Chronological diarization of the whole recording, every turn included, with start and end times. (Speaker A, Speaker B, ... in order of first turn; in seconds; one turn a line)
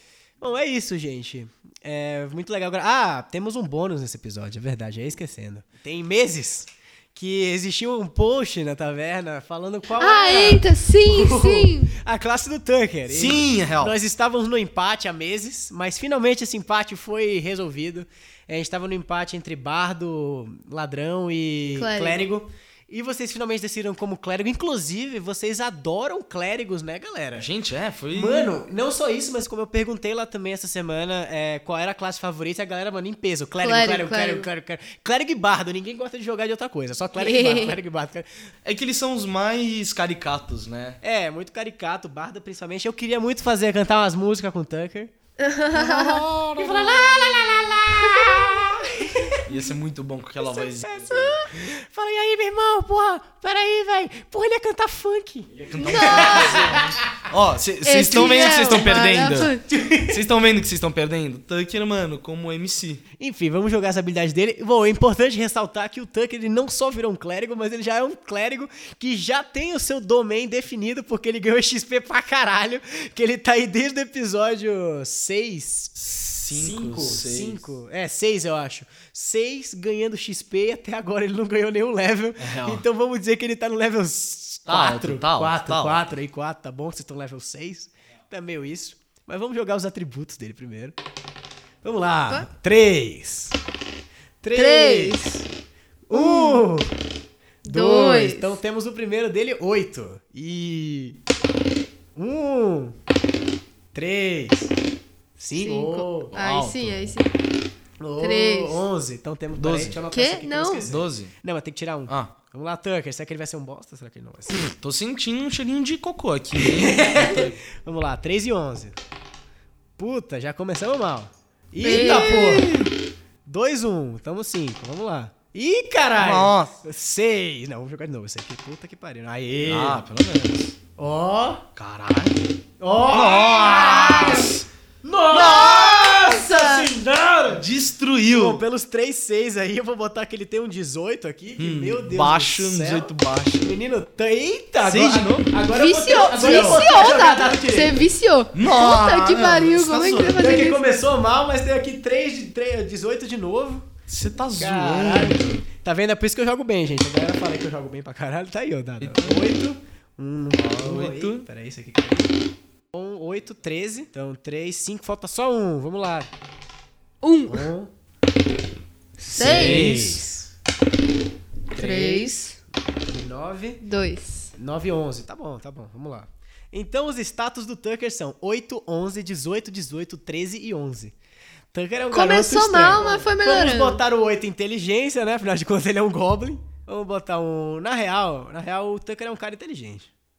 Speaker A: 0.4-27.5
Speaker B: 10.0-11.9
Speaker C: 13.1-14.0
Speaker B: 21.8-22.3
Speaker C: 27.4-28.5
Speaker A: 28.1-38.3
Speaker B: 33.6-34.5
Speaker B: 37.2-37.8
Speaker C: 38.6-41.0
Speaker A: 41.0-45.1
Speaker B: 45.4-46.3
Speaker A: 45.8-49.5
Speaker C: 45.8-47.5
Speaker B: 47.1-47.4
Speaker B: 48.0-48.7
Speaker C: 49.5-51.2
Speaker A: 50.4-57.2
Speaker B: 51.1-51.5
Speaker C: 55.6-63.0
Speaker B: 55.8-56.8
Speaker B: 57.9-59.6
Speaker A: 58.1-58.8
Speaker A: 59.7-60.2
Speaker A: 63.2-91.0
Speaker C: 76.0-77.7
Speaker C: 82.4-82.8
Speaker C: 84.7-86.0
Speaker A: 91.8-93.6
Speaker A: 94.4-95.2
Speaker B: 94.5-95.5
Speaker A: 96.1-96.9
Speaker B: 96.1-96.7
Speaker B: 97.7-98.6
Speaker A: 97.7-101.2
Speaker A: 102.2-103.0
Speaker A: 103.9-104.7
Speaker A: 105.4-106.3
Speaker B: 105.5-107.3
Speaker C: 106.3-107.1
Speaker A: 108.0-114.7
Speaker B: 108.2-108.8
Speaker C: 109.6-110.0
Speaker B: 110.1-110.9
Speaker C: 110.8-111.3
Speaker C: 112.1-112.3
Speaker C: 114.7-117.6
Speaker A: 116.6-119.0
Speaker A: 120.0-122.7
Speaker B: 121.8-122.7
Speaker C: 121.8-122.9
Speaker A: 123.5-130.0
Speaker C: 126.2-126.8
Speaker C: 129.7-130.8
Speaker A: 131.0-131.7
Speaker C: 131.8-132.4
Speaker A: 132.8-134.5
Speaker C: 133.1-134.7
Speaker B: 133.6-134.5
Speaker A: 135.0-137.6
Speaker C: 135.3-136.4
Speaker B: 135.4-136.9
Speaker C: 137.5-138.6
Speaker A: 138.3-143.1
Speaker C: 141.6-143.8
Speaker A: 143.6-148.0
Speaker C: 144.8-145.5
Speaker B: 145.7-150.9
Speaker C: 146.4-147.2
Speaker C: 148.5-150.3
Speaker A: 150.1-153.9
Speaker C: 154.1-155.6
Speaker A: 154.6-162.3
Speaker C: 159.0-159.6
Speaker C: 160.5-161.5
Speaker A: 162.9-166.3
Speaker B: 167.2-167.7
Speaker A: 167.5-167.9
Speaker B: 169.2-170.2
Speaker A: 169.3-170.5
Speaker C: 169.3-170.2
Speaker A: 171.7-172.4
Speaker B: 171.8-172.6
Speaker A: 173.1-173.8
Speaker B: 173.8-174.5
Speaker A: 174.6-181.2
Speaker A: 181.7-190.1
Speaker B: 182.1-184.0